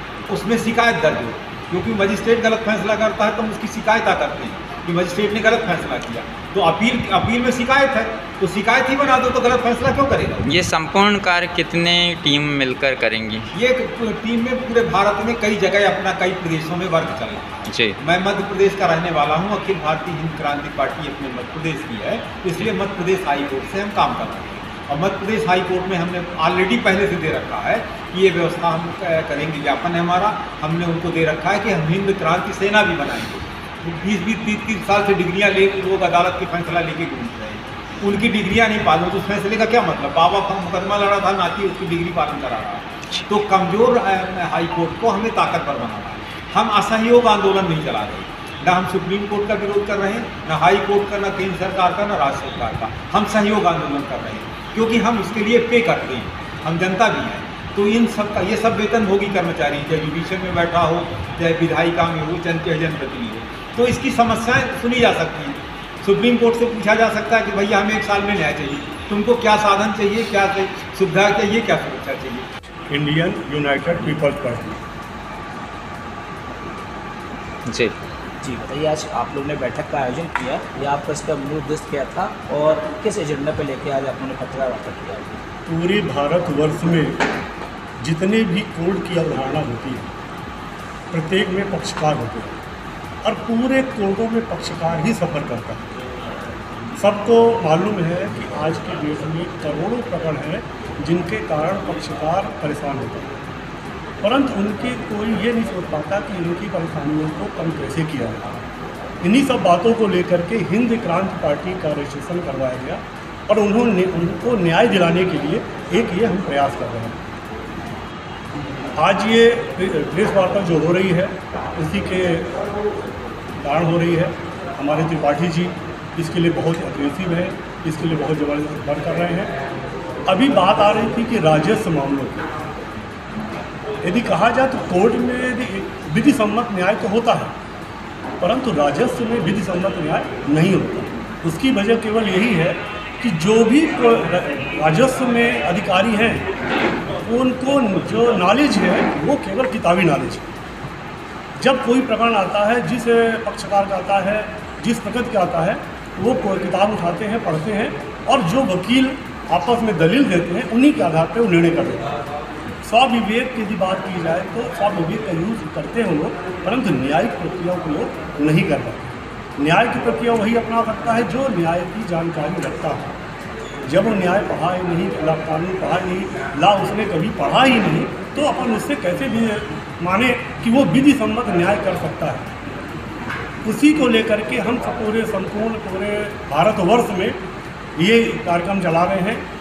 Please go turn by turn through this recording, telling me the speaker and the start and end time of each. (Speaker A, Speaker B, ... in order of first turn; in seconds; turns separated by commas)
Speaker A: 0.3-10.6, Speaker B: 10.4-13.4, Speaker A: 13.5-72.5, Speaker B: 17.7-18.0, Speaker C: 72.9-74.8, Speaker B: 77.7-78.0, Speaker D: 78.4-85.4, Speaker C: 85.7-87.2, Speaker C: 88.0-90.1, Speaker C: 91.1-92.6, Speaker C: 93.2-95.8, Speaker C: 97.0-103.3, Speaker C: 104.2-108.6, Speaker C: 109.2-117.2, Speaker C: 119.0-122.5, Speaker C: 123.6-129.5, Speaker C: 130.3-132.5, Speaker C: 134.0-137.5, Speaker C: 138.4-146.4, Speaker C: 147.2-150.5, Speaker C: 151.6-162.1, Speaker C: 162.8-169.1, Speaker C: 169.6-173.2, Speaker C: 173.9-182.5, Speaker C: 183.6-187.4, Speaker C: 188.0-189.4